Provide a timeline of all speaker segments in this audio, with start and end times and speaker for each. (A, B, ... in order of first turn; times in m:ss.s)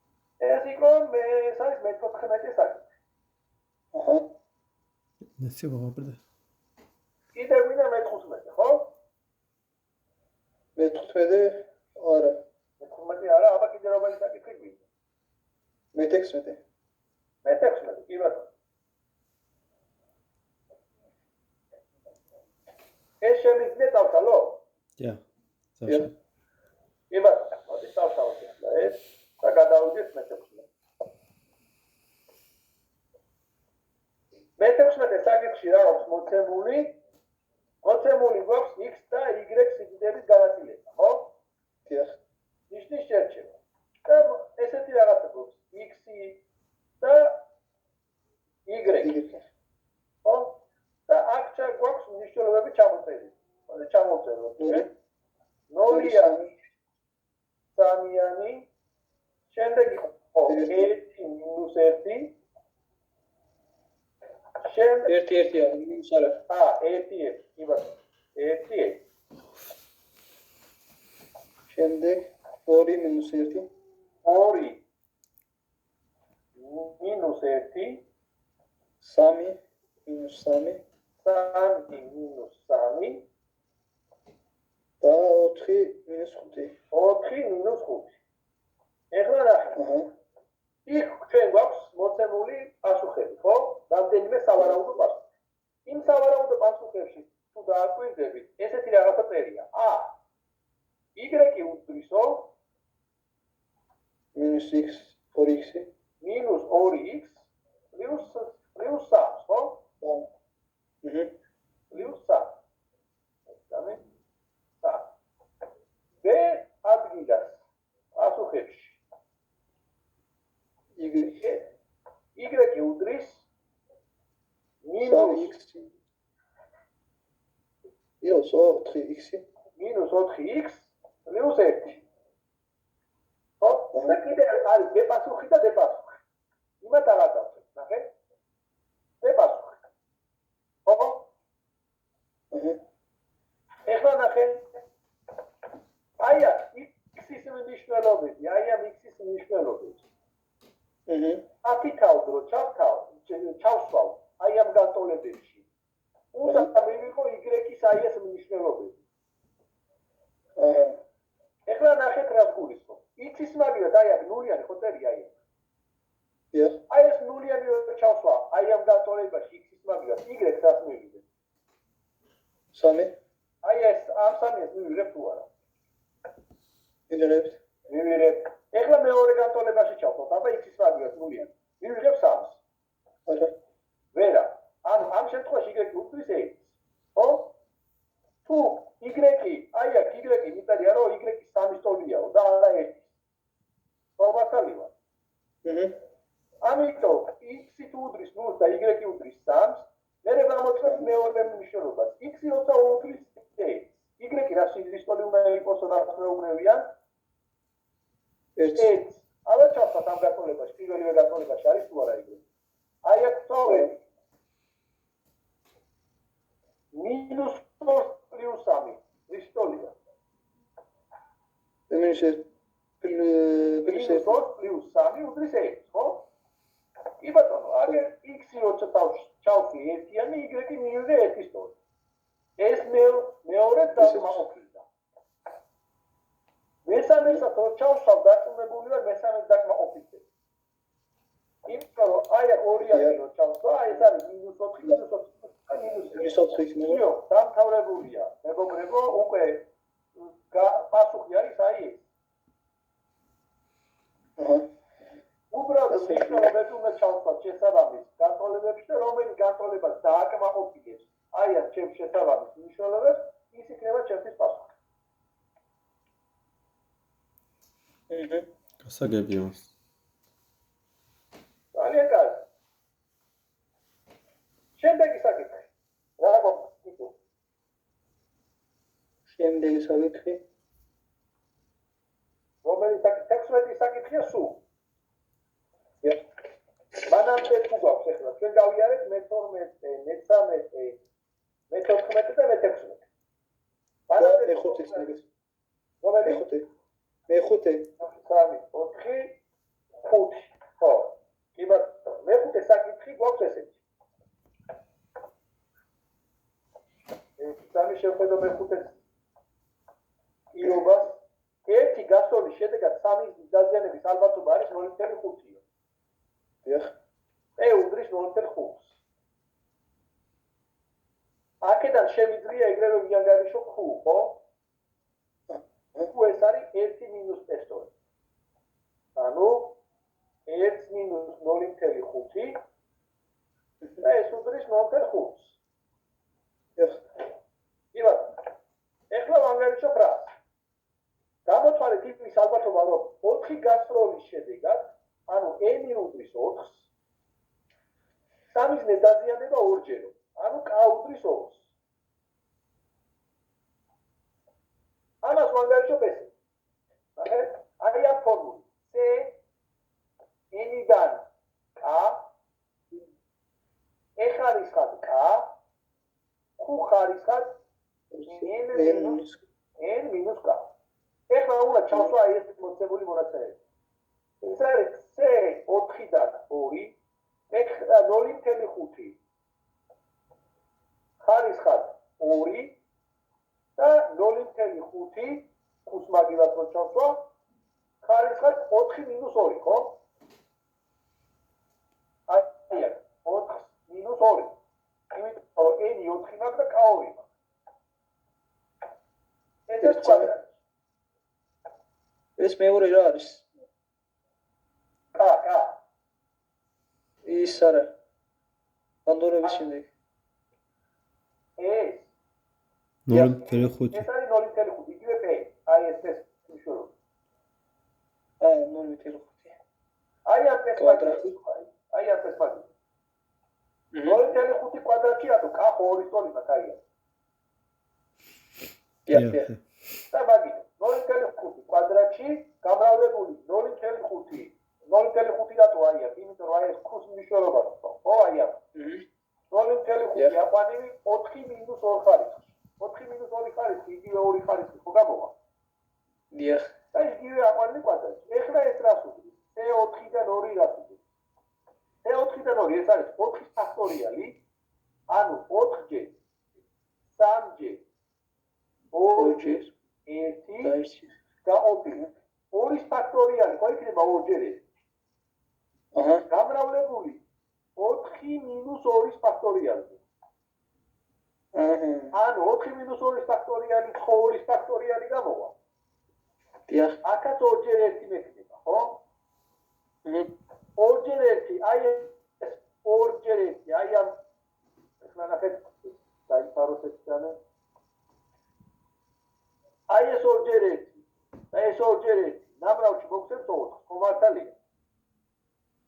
0:00.4-0:02.8 A
0:03.9-0:04.2 B
0:05.4-0:06.2 C
0:07.3-0:08.9 A
0:10.8-0:12.4 B
0:12.8-0:14.8 A
0:15.9-0:16.6 B
0:17.4-0:18.5 A
0:23.2-0:24.6 A
0:25.8-0:26.1 C
0:27.1-0:30.7 A
0:34.6-0:37.0 A
0:37.8-0:41.3 A
0:41.9-0:42.2 B
0:42.7-0:46.4 A
0:47.0-0:47.4 A
0:48.6-0:49.2 A
0:48.8-0:49.5 B
0:50.2-0:54.9 A
0:54.6-0:54.9 B
0:55.7-0:56.5 A
0:55.9-0:56.5 B
0:57.7-0:58.7 A
0:59.5-1:02.3 A
1:00.4-1:00.9 B
1:04.6-1:05.1 A
1:05.0-1:06.4 B
1:06.5-1:09.0 A
1:11.7-1:13.7 B
1:14.2-1:14.8 A
1:16.6-1:18.0 A
1:19.0-1:20.8 B
1:21.2-1:23.2 A
1:25.0-1:26.7 B
1:26.9-1:28.1 A
1:29.1-1:29.8 A
1:29.8-1:30.1 B
1:30.8-1:35.3 A
1:35.9-1:40.1 A
1:41.2-1:42.5 A
1:44.3-1:45.9 B
1:46.2-1:49.8 A
1:50.0-1:50.3 B
1:51.0-1:51.3 B
1:51.9-1:52.6 A
1:53.6-1:54.0 A
1:54.8-1:55.1 A
1:56.2-1:57.6 A
1:58.1-1:59.0 A
2:01.0-2:01.5 B
2:02.4-2:03.5 A
2:04.8-2:05.5 A
2:05.0-2:05.9 B
2:08.2-2:09.4 B
2:09.8-2:12.0 A
2:13.6-2:16.2 A
2:13.9-2:14.2 B
2:16.8-2:18.1 A
2:19.2-2:19.8 A
2:20.8-2:21.2 A
2:22.5-2:22.8 B
2:23.9-2:24.6 A
2:26.2-2:30.0 A
2:31.1-2:31.4 B
2:31.6-2:35.6 A
2:36.3-2:39.0 A
2:36.4-2:36.7 B
2:40.6-2:41.0 B
2:41.7-2:45.3 A
2:46.5-2:46.8 B
2:46.9-2:51.2 A
2:52.7-2:53.1 B
2:53.6-2:55.5 A
2:57.1-2:57.6 B
2:57.9-3:02.6 A
3:03.3-3:03.5 B
3:04.1-3:07.5 A
3:08.4-3:13.1 A
3:14.2-3:14.9 A
3:15.6-3:15.9 B
3:16.6-3:26.9 A
3:20.8-3:21.1 B
3:28.6-3:28.9 B
3:28.7-3:32.4 A
3:33.0-3:34.0 A
3:33.6-3:33.9 B
3:36.9-3:40.0 A
3:41.9-3:42.4 B
3:43.0-3:44.3 B
3:43.8-3:46.3 A
3:47.2-3:51.7 A
3:52.6-3:54.8 A
3:54.0-3:54.4 B
3:56.8-4:00.2 A
4:01.7-4:09.7 A
4:02.9-4:03.2 B
4:06.1-4:07.0 B
4:10.2-4:12.0 A
4:14.4-4:14.7 B
4:15.5-4:24.7 A
4:15.9-4:16.5 B
4:28.1-4:28.5 B
4:28.8-4:29.7 C
4:31.7-4:32.4 A
4:34.8-4:37.2 A
4:39.3-4:40.4 B
4:42.6-4:44.6 A
4:47.0-4:51.0 A
4:51.7-4:53.0 A
4:54.1-4:55.1 A
4:54.2-4:55.2 B
4:56.0-4:56.4 A
4:56.3-4:56.6 B
4:57.3-4:57.9 B
4:58.0-4:59.4 A
5:00.0-5:03.8 A
5:07.4-5:09.0 A
5:10.5-5:15.6 A
5:16.6-5:16.9 B
5:17.6-5:19.0 A
5:21.6-5:24.4 A
5:25.5-5:26.1 B
5:26.1-5:27.9 A
5:29.2-5:29.8 A
5:30.4-5:32.6 A
5:34.0-5:35.6 A
5:37.9-5:38.4 A
5:39.1-5:40.3 A
5:41.4-5:46.9 A
5:48.5-5:51.7 A
5:55.2-5:56.3 A
5:57.2-5:59.4 A
6:00.5-6:01.3 A
6:01.8-6:02.3 A
6:04.2-6:05.5 A
6:06.6-6:07.6 A
6:08.1-6:09.4 B
6:08.2-6:09.2 A
6:09.8-6:10.7 A
6:11.3-6:13.6 A
6:14.4-6:17.0 A
6:17.5-6:19.2 A
6:21.2-6:22.8 A
6:23.8-6:27.3 A
6:28.0-6:30.0 A
6:32.3-6:34.6 A
6:35.1-6:37.3 A
6:39.7-6:40.5 A
6:39.8-6:40.3 B
6:42.4-6:43.5 B
6:45.1-6:45.8 A
6:47.2-6:47.9 B
6:49.0-6:49.9 B
6:51.6-6:52.1 A
6:53.0-6:54.1 C
6:53.1-6:53.4 B
6:53.4-6:56.9 A
6:58.4-6:59.6 B
7:00.2-7:02.7 A
7:00.8-7:01.3 B
7:03.9-7:04.2 B
7:04.0-7:06.8 A
7:09.0-7:09.5 B
7:09.1-7:09.6 C
7:10.1-7:18.6 A
7:18.7-7:19.0 B
7:19.5-7:25.3 A
7:26.3-7:26.7 B
7:26.9-7:31.0 A
7:32.0-7:34.4 A
7:35.1-7:36.1 A
7:37.1-7:37.8 A
7:38.9-7:40.7 A
7:39.2-7:39.7 B
7:40.6-7:41.1 B
7:41.4-7:44.6 A
7:45.9-7:46.2 B
7:46.3-7:47.2 A
7:47.8-7:50.0 A
7:51.5-7:52.1 B
7:52.1-7:55.5 A
7:56.7-7:57.0 B
7:57.0-7:59.0 A
8:00.8-8:04.1 A
8:05.0-8:07.4 A
8:09.9-8:14.5 A